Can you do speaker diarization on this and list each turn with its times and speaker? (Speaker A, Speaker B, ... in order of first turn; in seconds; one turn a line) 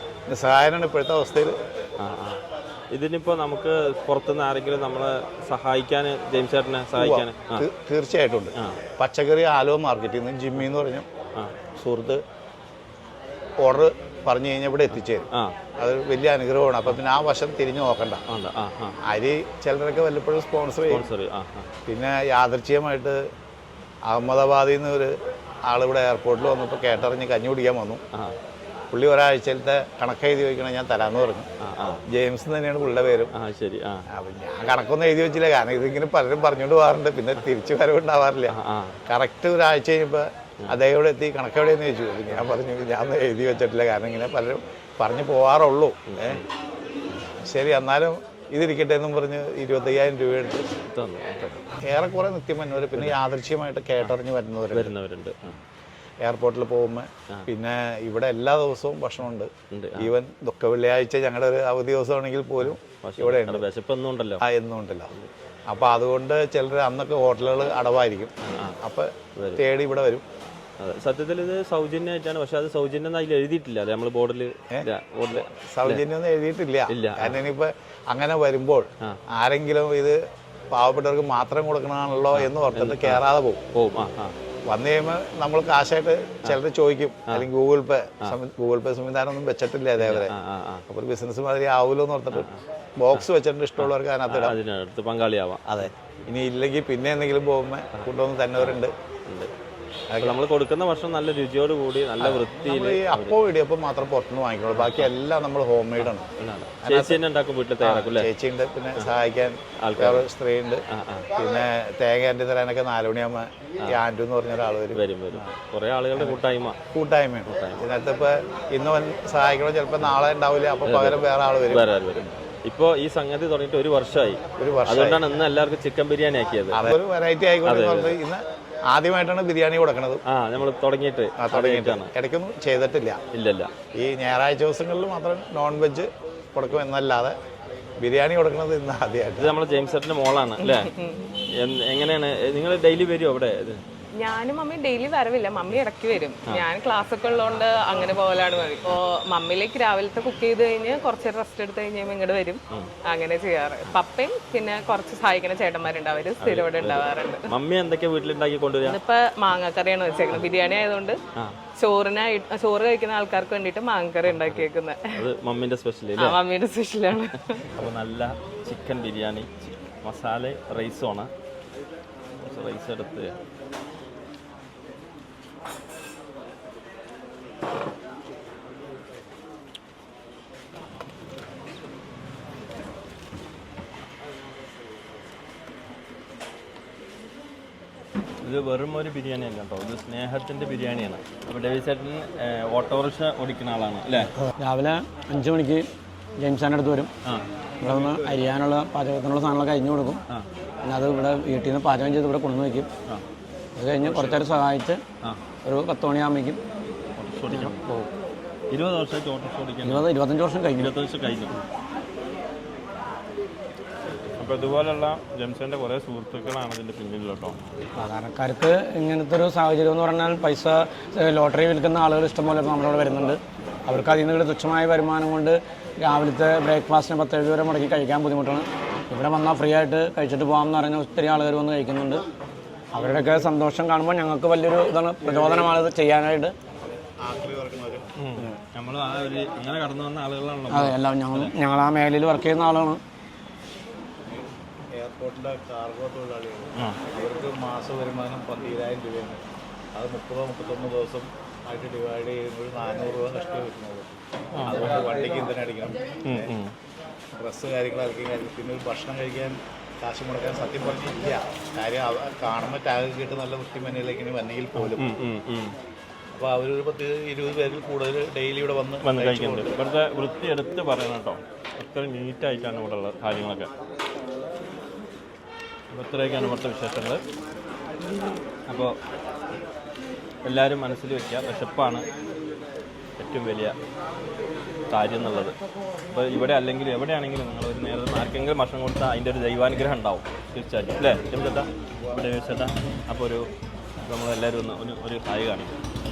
Speaker A: 0.3-1.6
Speaker B: 2.0-2.4
Speaker B: 2.9-7.7
Speaker A: 7.0-11.1
Speaker A: 11.8-12.2
Speaker A: 13.6-18.2
Speaker B: 18.3-19.0
Speaker A: 19.1-21.1
Speaker B: 20.9-21.7
Speaker A: 21.9-23.2
Speaker A: 24.1-25.1
Speaker A: 25.7-28.0
Speaker A: 28.9-31.5
Speaker B: 31.6-32.0
Speaker A: 32.1-33.3
Speaker B: 33.3-34.0
Speaker A: 34.1-38.6
Speaker B: 38.5-39.0
Speaker A: 39.1-46.4
Speaker B: 46.1-46.5
Speaker A: 47.3-50.7
Speaker B: 50.9-51.7
Speaker A: 51.9-54.9
Speaker B: 54.7-55.6
Speaker A: 56.2-63.6
Speaker B: 59.7-60.1
Speaker B: 62.6-64.4
Speaker A: 64.4-65.1
Speaker A: 65.7-70.2
Speaker B: 68.4-68.8
Speaker B: 69.4-69.6
Speaker B: 70.8-76.0
Speaker A: 75.4-80.2
Speaker B: 76.9-77.4
Speaker A: 80.7-83.6
Speaker B: 82.3-83.2
Speaker B: 83.7-84.3
Speaker A: 84.7-90.3
Speaker B: 90.0-90.8
Speaker A: 90.9-94.5
Speaker B: 92.3-92.6
Speaker B: 93.8-95.9
Speaker A: 95.7-98.9
Speaker B: 97.9-99.5
Speaker B: 100.2-103.3
Speaker A: 102.2-106.3
Speaker B: 104.7-105.1
Speaker B: 106.0-108.3
Speaker A: 106.8-107.2
Speaker A: 107.8-110.8
Speaker B: 109.8-110.3
Speaker B: 110.9-111.3
Speaker A: 111.4-115.5
Speaker B: 114.9-116.8
Speaker A: 116.9-121.9
Speaker B: 117.5-117.8
Speaker B: 120.8-126.9
Speaker A: 124.6-125.2
Speaker A: 126.7-130.2
Speaker B: 127.7-128.2
Speaker B: 130.3-132.1
Speaker A: 131.4-133.2
Speaker B: 133.3-133.7
Speaker A: 134.0-137.3
Speaker A: 138.0-139.5
Speaker B: 139.4-140.9
Speaker C: 140.6-141.3
Speaker B: 141.5-143.8
Speaker C: 144.2-157.5
Speaker B: 156.4-159.0
Speaker C: 158.8-161.2
Speaker C: 161.8-165.3
Speaker B: 164.2-164.7
Speaker B: 165.2-166.4
Speaker C: 166.2-167.7
Speaker B: 167.8-171.3
Speaker B: 172.4-173.3
Speaker B: 188.4-194.3
Speaker D: 194.5-195.9
Speaker D: 196.4-197.1
Speaker B: 197.2-198.3
Speaker D: 197.8-200.2
Speaker D: 200.8-202.9
Speaker D: 203.8-205.0
Speaker B: 204.0-204.4
Speaker D: 205.7-206.6
Speaker B: 207.2-207.8
Speaker D: 207.5-208.1
Speaker B: 208.7-210.1
Speaker D: 209.8-210.9
Speaker B: 210.8-211.6
Speaker B: 214.4-217.6
Speaker D: 218.0-232.2
Speaker D: 232.9-236.6
Speaker A: 235.3-235.7
Speaker A: 237.2-238.1
Speaker B: 238.2-241.5
Speaker D: 240.7-243.0
Speaker A: 244.3-249.4
Speaker A: 249.9-256.5
Speaker B: 254.6-255.0
Speaker B: 256.3-256.7
Speaker A: 257.4-265.0
Speaker B: 264.8-265.8
Speaker A: 266.3-269.7
Speaker B: 269.0-273.7
Speaker B: 275.9-277.2
Speaker B: 278.7-279.0
Speaker B: 280.5-282.1
Speaker B: 283.2-283.8
Speaker B: 284.9-285.6
Speaker B: 286.1-293.5
Speaker B: 294.1-295.8